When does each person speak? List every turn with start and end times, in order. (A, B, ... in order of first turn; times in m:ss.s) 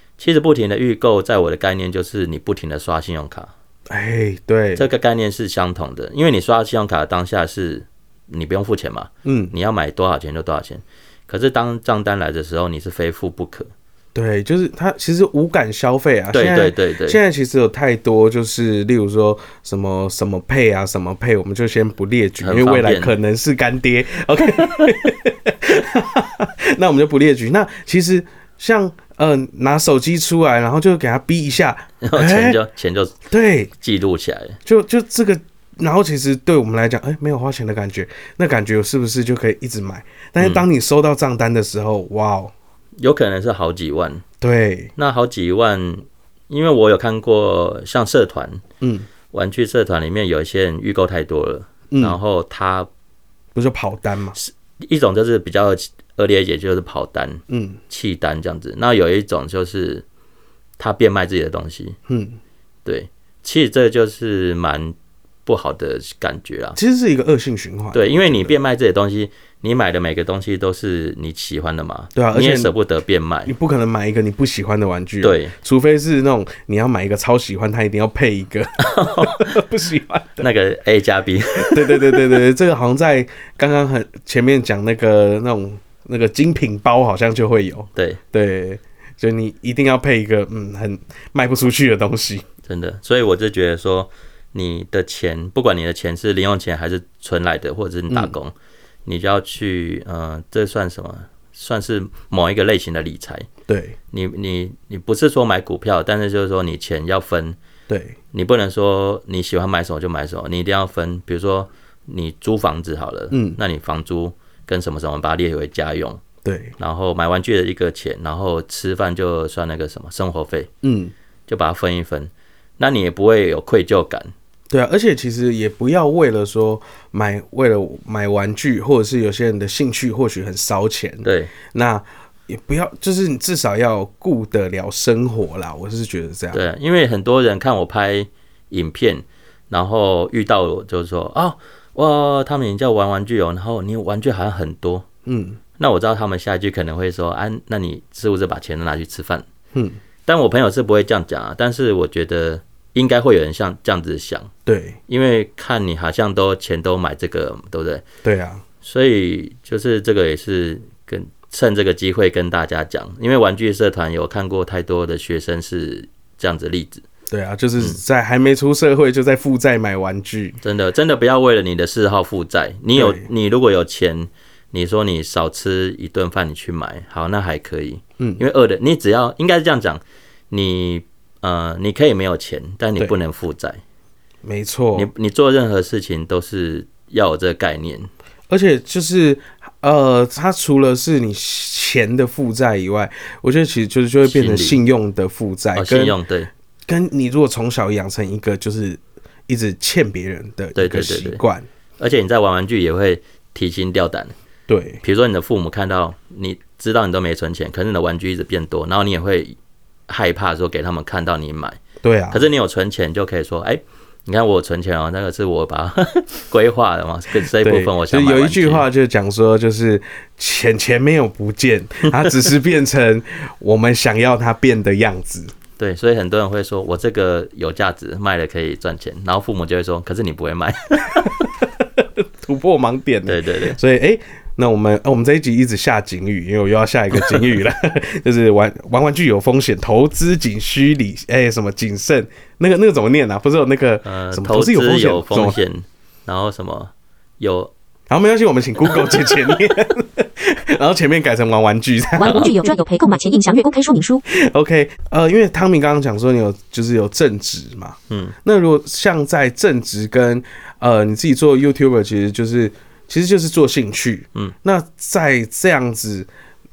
0:00.2-0:03.5 A
0:03.9-0:04.9 B
0:04.8-0:13.7 A
0:09.2-0:09.5 B
0:14.1-0:32.6 B
0:16.3-0:17.2 A
0:22.4-0:23.1 A
0:32.0-0:33.1 A
0:33.3-0:33.7 B
0:33.8-0:34.6 A
0:34.6-0:42.5 B
0:40.4-0:40.6 A
0:43.0-0:44.2 A
0:44.4-0:44.9 B
0:45.0-0:48.6 A
0:48.8-0:49.1 B
0:49.3-0:52.9 A
0:51.9-0:52.2 B
0:53.5-0:54.4 B
0:54.4-1:00.0 A
0:57.5-0:57.8 B
1:00.8-1:02.0 A
1:02.1-1:02.4 B
1:02.8-1:06.8 A
1:06.8-1:08.6 B
1:07.9-1:13.5 A
1:12.2-1:12.7 B
1:13.5-1:20.5 B
1:15.2-1:15.5 A
1:18.8-1:19.6 A
1:20.4-1:22.4 A
1:21.6-1:32.4 B
1:32.7-1:38.5 A
1:39.0-1:43.5 A
1:43.7-1:44.0 B
1:44.1-1:47.6 A
1:47.9-1:48.2 B
1:48.3-1:56.2 A
1:53.3-1:53.6 B
1:56.4-1:56.7 B
1:56.8-2:00.7 A
2:00.8-2:01.1 B
2:01.5-2:04.3 A
2:04.7-2:16.6 B
2:11.2-2:11.5 A
2:16.5-2:25.0 A
2:25.2-2:25.6 B
2:25.8-2:29.4 A
2:30.2-2:34.5 A
2:34.6-2:35.0 B
2:35.1-2:38.0 A
2:38.2-2:38.6 B
2:38.8-2:47.0 A
2:47.3-2:50.6 B
2:50.6-3:03.8 A
2:52.9-2:53.3 B
3:04.4-3:05.1 B
3:04.9-3:08.1 A
3:08.5-3:16.2 B
3:14.2-3:14.8 A
3:15.7-3:16.5 A
3:16.9-3:21.6 B
3:20.7-3:21.4 A
3:22.0-3:24.3 A
3:24.7-3:25.0 B
3:25.0-3:29.6 A
3:30.1-3:31.8 A
3:32.0-3:32.4 B
3:32.3-3:38.9 A
3:37.6-3:45.5 B
3:45.8-3:51.4 A
3:51.2-4:05.6 B
3:53.2-3:53.8 A
4:04.0-4:07.7 A
4:08.1-4:12.6 B
4:12.2-4:14.2 C
4:14.3-4:26.3 B
4:18.1-4:18.3 A